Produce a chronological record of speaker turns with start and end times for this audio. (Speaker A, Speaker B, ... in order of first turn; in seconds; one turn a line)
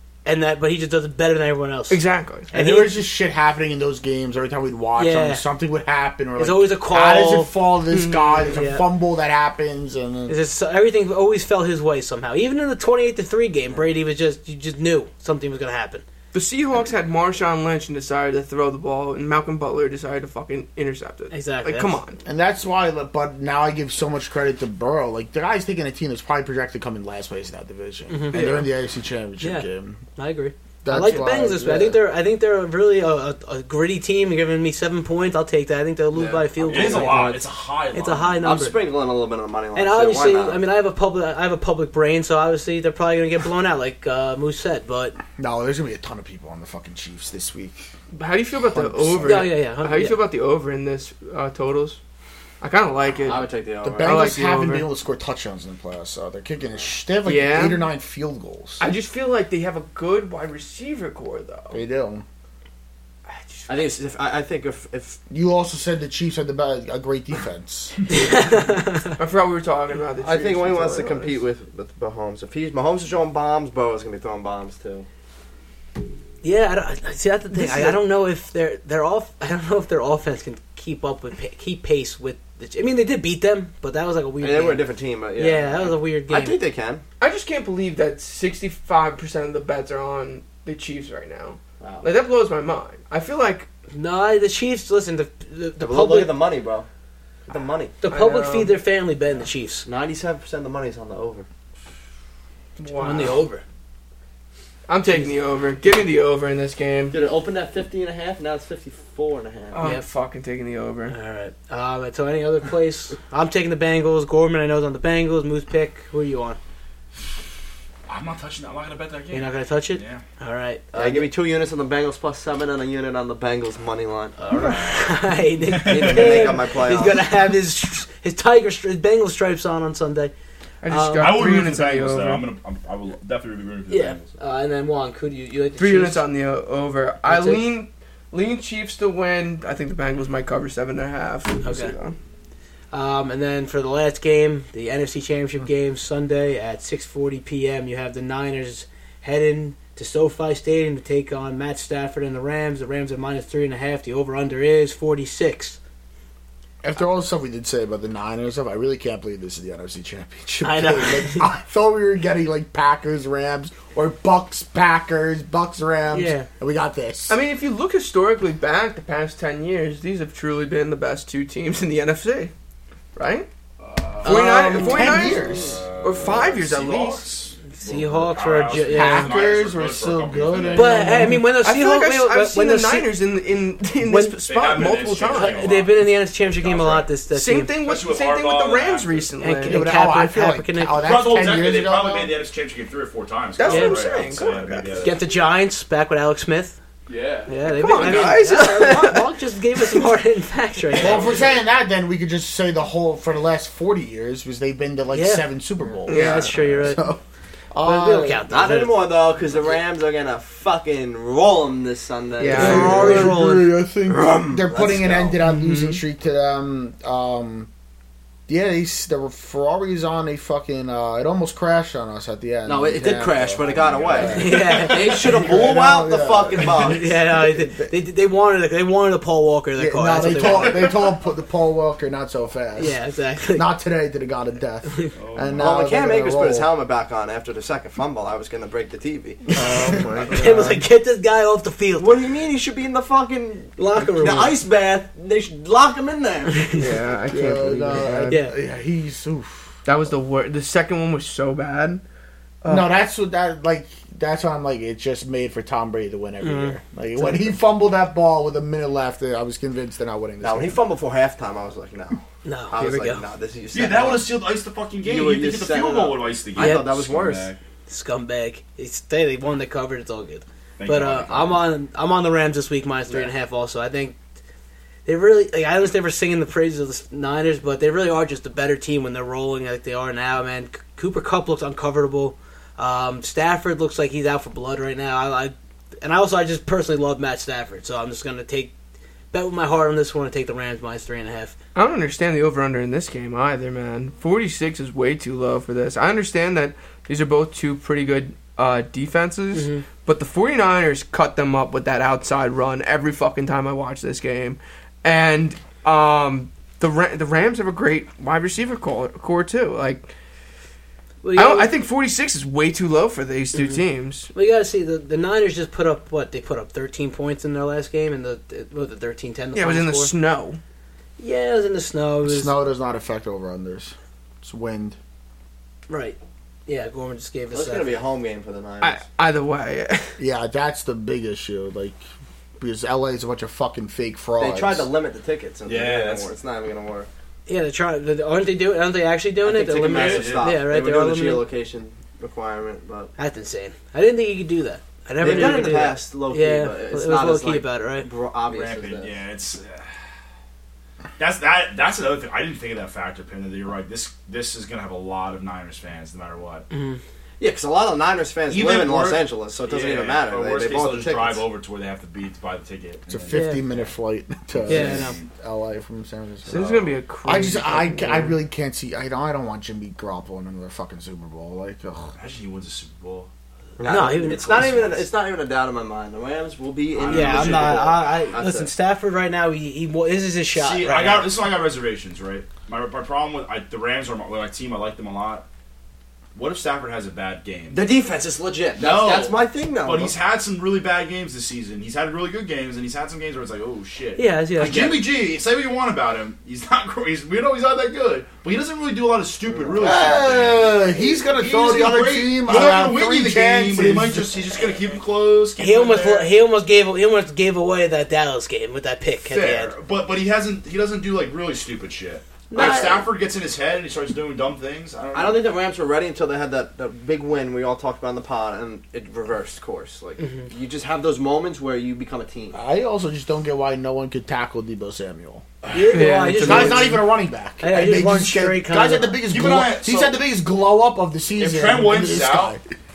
Speaker A: 0.2-3.0
Speaker B: 1.9-2.5
Speaker C: 2.5-10.3
Speaker A: 5.0-5.4
Speaker A: 6.4-7.5
Speaker B: 7.9-8.6
Speaker A: 8.5-8.8
Speaker A: 10.3-16.0
Speaker B: 16.3-22.2
Speaker A: 21.3-22.0
Speaker C: 22.2-30.0
Speaker A: 28.1-28.6
Speaker B: 28.3-28.7
Speaker A: 29.4-38.8
Speaker C: 30.8-32.0
Speaker D: 36.1-37.4
Speaker E: 36.6-38.5
Speaker D: 38.4-40.6
Speaker A: 39.7-45.2
Speaker C: 45.4-47.9
Speaker B: 48.1-52.0
Speaker C: 48.6-49.5
Speaker A: 49.2-50.2
Speaker B: 52.6-53.5
Speaker D: 53.2-54.2
Speaker C: 53.8-58.9
Speaker B: 54.0-54.9
Speaker B: 57.2-57.8
Speaker B: 58.8-61.8
Speaker C: 61.7-62.2
Speaker B: 63.3-63.9
Speaker D: 63.7-65.2
Speaker C: 65.3-68.0
Speaker A: 68.1-69.2
Speaker B: 69.0-71.4
Speaker D: 70.2-75.1
Speaker A: 76.4-86.6
Speaker B: 77.6-77.9
Speaker D: 84.4-87.0
Speaker B: 87.2-93.7
Speaker D: 91.8-92.1
Speaker A: 93.9-96.3
Speaker D: 95.8-96.8
Speaker D: 97.5-97.9
Speaker A: 98.0-99.8
Speaker B: 98.1-98.8
Speaker D: 99.8-101.5
Speaker B: 102.8-103.4
Speaker A: 102.9-103.6
Speaker B: 104.9-107.2
Speaker D: 107.1-109.8
Speaker B: 109.7-111.1
Speaker A: 109.8-110.0
Speaker A: 111.1-116.6
Speaker E: 118.1-120.2
Speaker A: 119.3-121.3
Speaker D: 120.9-124.9
Speaker A: 124.4-130.3
Speaker E: 125.7-126.5
Speaker D: 125.9-127.2
Speaker B: 130.8-132.4
Speaker A: 130.9-131.4
Speaker E: 131.2-134.3
Speaker A: 133.9-136.2
Speaker B: 135.8-142.2
Speaker A: 137.2-137.6
Speaker A: 141.6-141.9
Speaker A: 142.9-155.8
Speaker C: 156.8-167.4
Speaker A: 160.6-161.5
Speaker A: 166.1-166.5
Speaker B: 167.3-172.5
Speaker B: 173.2-173.5
Speaker E: 173.8-181.0
Speaker C: 174.2-175.8
Speaker B: 174.2-177.3
Speaker A: 174.2-174.9
Speaker A: 177.7-179.3
Speaker C: 178.7-181.4
Speaker A: 180.7-183.1
Speaker B: 181.0-185.7
Speaker A: 184.0-184.4
Speaker E: 184.4-187.1
Speaker A: 185.2-187.7
Speaker B: 187.3-189.9
Speaker E: 187.8-189.3
Speaker A: 189.4-191.2
Speaker C: 189.7-192.3
Speaker E: 191.0-195.2
Speaker B: 193.6-195.1
Speaker A: 193.6-194.0
Speaker A: 195.0-196.8
Speaker E: 197.1-198.4
Speaker A: 197.5-201.4
Speaker B: 197.7-200.1
Speaker E: 200.9-201.6
Speaker C: 200.9-208.4
Speaker A: 205.1-205.5
Speaker A: 206.1-207.0
Speaker B: 206.1-206.6
Speaker A: 207.8-209.0
Speaker D: 208.5-213.4
Speaker B: 212.4-213.3
Speaker C: 212.5-217.7
Speaker A: 212.5-213.7
Speaker D: 214.1-215.4
Speaker B: 215.6-216.0
Speaker C: 218.5-227.9
Speaker D: 222.7-227.1
Speaker E: 223.5-225.3
Speaker A: 224.3-225.4
Speaker A: 226.7-231.0
Speaker C: 229.8-233.0
Speaker A: 232.8-233.7
Speaker C: 233.5-236.7
Speaker E: 235.2-235.9
Speaker D: 235.6-240.8
Speaker C: 239.6-240.1
Speaker A: 240.3-242.1
Speaker D: 242.0-246.8
Speaker A: 243.8-244.6
Speaker A: 246.5-246.9
Speaker B: 246.7-248.4
Speaker C: 247.3-249.8
Speaker A: 248.3-248.5
Speaker B: 249.8-252.0
Speaker B: 252.6-252.9
Speaker C: 252.7-260.8
Speaker A: 256.4-257.5
Speaker D: 260.4-264.4
Speaker A: 262.4-263.2
Speaker E: 263.7-267.6
Speaker D: 265.0-267.6
Speaker A: 266.6-266.9
Speaker A: 267.9-274.2
Speaker E: 270.8-271.7
Speaker A: 275.1-288.7
Speaker A: 289.3-291.5
Speaker B: 291.7-310.1
Speaker A: 299.5-299.8
Speaker A: 311.2-311.7
Speaker B: 311.3-314.3
Speaker A: 314.3-320.1
Speaker B: 319.5-320.6
Speaker A: 321.2-322.5
Speaker C: 322.2-325.0
Speaker A: 325.9-328.0
Speaker D: 327.5-329.0
Speaker B: 328.8-330.2
Speaker C: 330.2-332.0
Speaker C: 332.6-334.9
Speaker D: 334.4-337.1
Speaker E: 335.6-336.3
Speaker A: 337.5-341.4
Speaker D: 339.4-343.1
Speaker E: 339.8-340.6
Speaker A: 343.2-348.1
Speaker D: 345.2-349.2
Speaker E: 348.4-349.9
Speaker E: 351.2-356.7
Speaker A: 356.7-357.0
Speaker D: 357.4-361.4
Speaker E: 358.5-363.9
Speaker C: 363.1-372.1
Speaker A: 363.3-363.6
Speaker E: 364.5-365.3
Speaker A: 364.7-365.1
Speaker B: 366.5-368.4
Speaker E: 372.1-373.3
Speaker D: 373.8-378.7
Speaker A: 373.9-374.8
Speaker E: 374.3-375.1
Speaker E: 376.9-378.0
Speaker A: 377.1-381.3
Speaker E: 380.5-385.4
Speaker E: 386.3-387.8
Speaker D: 387.7-390.1
Speaker E: 388.8-406.3
Speaker A: 394.2-395.1
Speaker D: 399.4-400.0
Speaker C: 399.8-404.3
Speaker A: 405.6-409.7
Speaker E: 409.2-415.5
Speaker A: 412.5-413.1
Speaker D: 415.1-422.6
Speaker C: 422.5-425.4
Speaker A: 425.7-427.0
Speaker B: 425.9-427.0
Speaker C: 426.4-432.6
Speaker A: 427.6-429.2
Speaker E: 429.3-430.2
Speaker E: 431.4-432.6